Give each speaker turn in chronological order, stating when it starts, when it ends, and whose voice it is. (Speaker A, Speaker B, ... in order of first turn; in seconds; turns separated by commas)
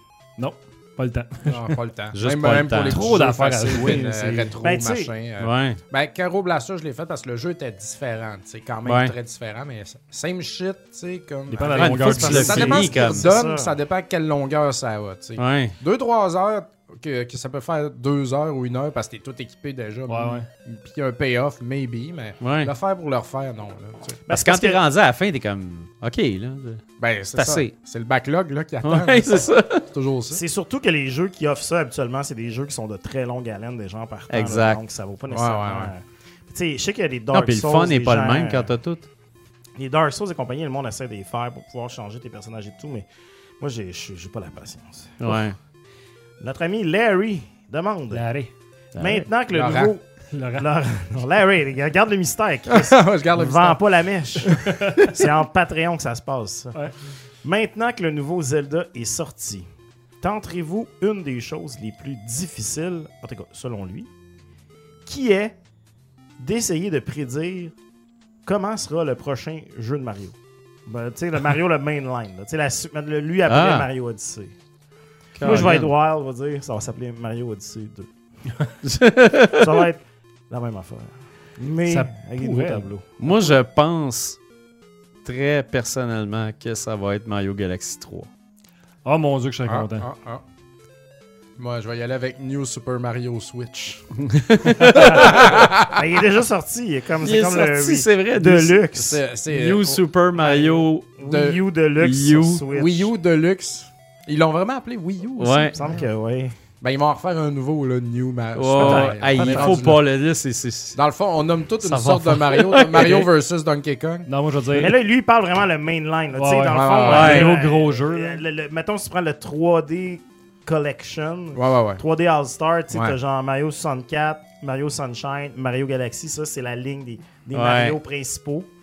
Speaker A: 0.4-1.7, Speaker B: 1.4-24.2, Speaker C: 2.1-3.1, Speaker A: 2.9-4.5, Speaker D: 4.6-5.1, Speaker C: 5.4-5.8, Speaker C: 8.8-9.1, Speaker A: 11.5-12.8, Speaker C: 11.7-13.2, Speaker D: 12.2-13.8, Speaker C: 15.4-15.7, Speaker A: 20.1-20.4, Speaker C: 22.4-22.7, Speaker D: 24.3-24.8, Speaker C: 24.3-27.7, Speaker B: 27.0-30.4, Speaker C: 28.8-29.9, Speaker D: 30.3-38.7, Speaker C: 34.3-34.8, Speaker B: 35.3-35.9, Speaker C: 37.3-39.0, Speaker D: 39.8-43.1, Speaker D: 43.6-45.4, Speaker C: 45.2-45.5, Speaker D: 46.4-48.2, Speaker A: 48.1-48.5, Speaker C: 48.9-49.2, Speaker D: 49.0-56.8, Speaker B: 49.5-49.9, Speaker A: 50.3-50.6, Speaker B: 52.7-53.8, Speaker B: 54.5-54.8, Speaker D: 57.4-59.7, Speaker D: 60.2-64.1, Speaker D: 65.0-65.5, Speaker D: 66.4-67.7, Speaker D: 68.5-74.5, Speaker C: 73.5-73.9, Speaker C: 75.3-75.9, Speaker D: 75.4-78.1, Speaker C: 78.8-79.7, Speaker D: 79.5-83.5, Speaker A: 81.9-82.9, Speaker C: 83.2-84.4, Speaker C: 85.2-88.3, Speaker A: 89.0-90.0, Speaker B: 89.7-90.4, Speaker B: 91.6-94.1, Speaker C: 94.2-95.7, Speaker B: 94.7-96.0, Speaker D: 95.2-99.2, Speaker C: 97.2-101.1, Speaker B: 99.0-100.0, Speaker D: 100.3-103.1, Speaker B: 101.2-101.6, Speaker C: 102.0-102.6, Speaker B: 102.7-106.0, Speaker C: 105.4-105.7, Speaker D: 105.7-106.5, Speaker B: 106.8-110.0, Speaker C: 108.5-111.0, Speaker A: 108.8-109.1, Speaker D: 109.4-109.7, Speaker B: 110.9-114.3, Speaker C: 111.8-113.3, Speaker A: 114.3-115.0, Speaker D: 114.7-128.7, Speaker A: 116.3-118.4, Speaker B: 116.7-117.5, Speaker C: 117.0-117.5, Speaker B: 121.5-122.0, Speaker C: 127.5-128.0